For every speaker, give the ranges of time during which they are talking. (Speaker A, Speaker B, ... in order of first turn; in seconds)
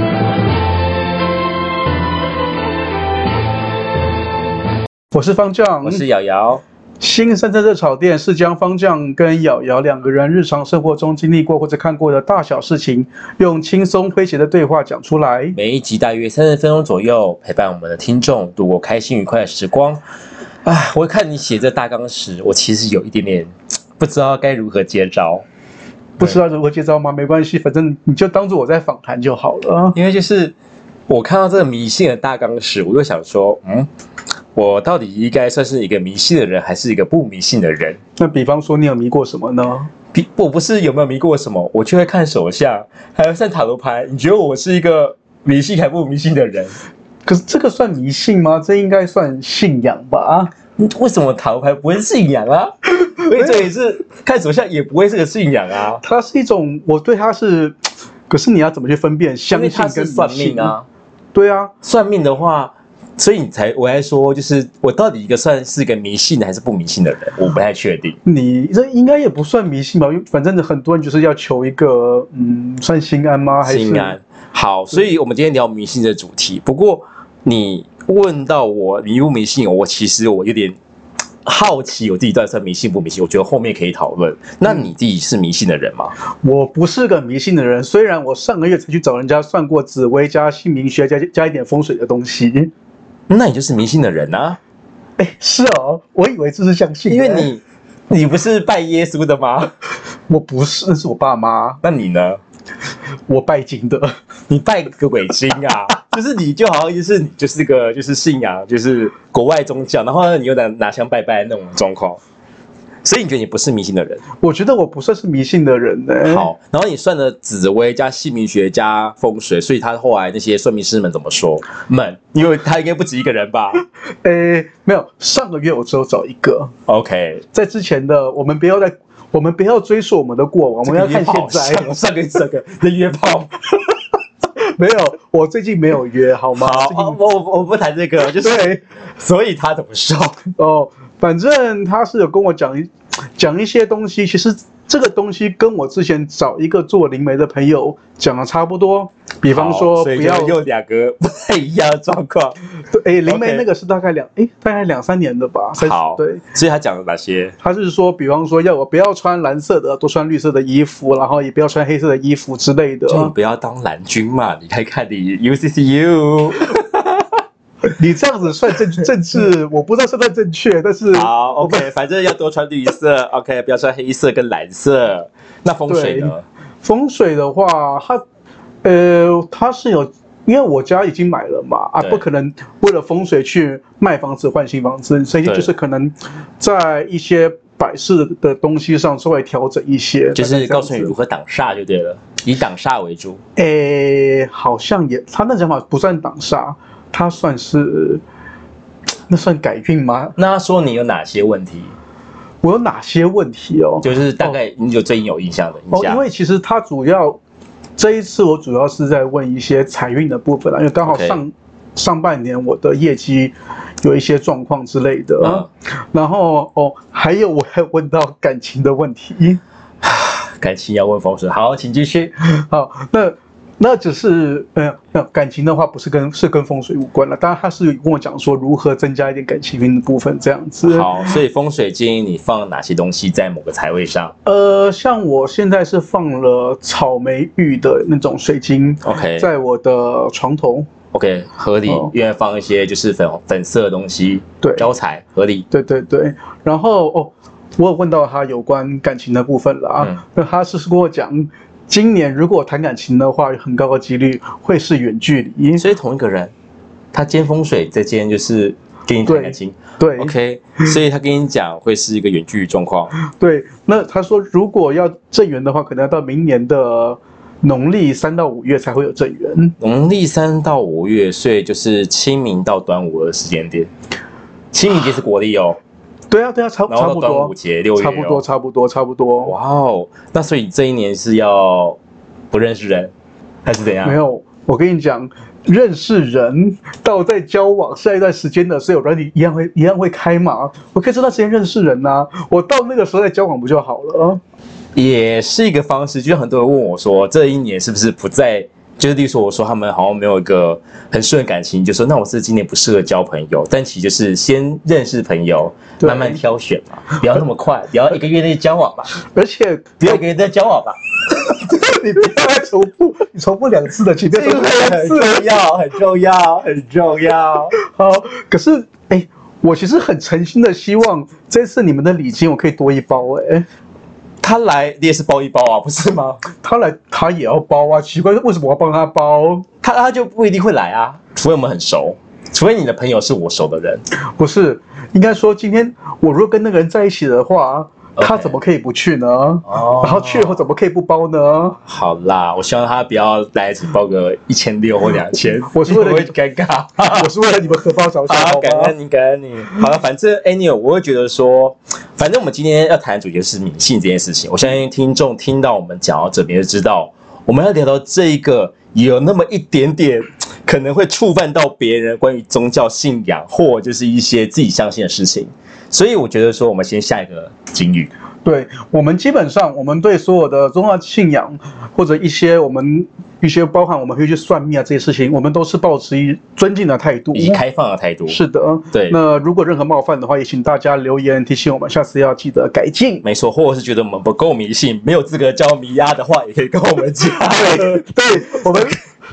Speaker A: 5.1-6.0, 7.0-15.6, 26.2-30.0, 38.2-39.9, 47.3-50.5, 56.0-57.8, 58.3-60.7, 61.3-61.7, 68.2-74.1, 86.4-92.7, 95.2-97.5, 100.3-101.8, 103.3-104.1, 114.4-116.5, 124.2-126.7, 127.5-131.8, 134.6-137.2, 138.3-138.8, 140.6-150.6, 152.9-156.4, 157.6-163.3, 168.0-171.9, 175.9-178.2, 178.8-191.1, 193.6-198.2, 199.3-200.3, 202.6-204.6, 205.9-207.4, 208.0-219.6, 222.6-231.3, 234.4-240.9, 244.6-244.9, 245.7-255.8, 259.3-260.3, 263.3-269.8, 276.3-279.5, 284.0-294.4, 306.0-306.4, 309.3-310.2, 311.6-315.4, 317.8-323.7, 326.5-329.6, 334.4-341.8, 345.7-346.3, 347.1-348.9, 368.4-377.6, 378.3-383.2, 387.5-389.0
Speaker B: 5.8-6.6, 15.6-20.0, 20.6-25.4, 29.9-30.6, 31.1-33.9, 34.5-38.0, 40.1-46.8, 50.8-56.0, 59.5-60.9, 61.8-68.2, 73.6-80.8, 81.5-86.2, 93.3-94.6, 97.1-99.7, 101.8-102.4, 104.5-112.2, 113.0-114.2, 116.2-123.8, 126.9-127.4, 130.8-133.7, 136.5-140.5, 149.5-152.6, 153.3-153.7, 155.8-157.6, 163.1-167.4, 171.1-176.4, 190.3-193.4, 200.4-201.9, 204.0-206.2, 211.1-211.4, 215.4-215.7, 220.0-222.3, 230.8-234.3, 239.0-239.5, 241.1-245.7, 255.8-256.5, 257.1-263.1, 269.8-273.9, 274.7-275.8, 276.9-278.4, 279.4-282.0, 282.5-283.1, 283.6-284.2, 294.9-309.1, 310.0-311.0, 314.3-317.7, 324.4-326.4, 329.8-334.0, 338.2-338.5, 339.7-340.6, 341.9-347.3, 348.3-368.1, 377.3-378.4, 378.9-379.2, 383.2-388.8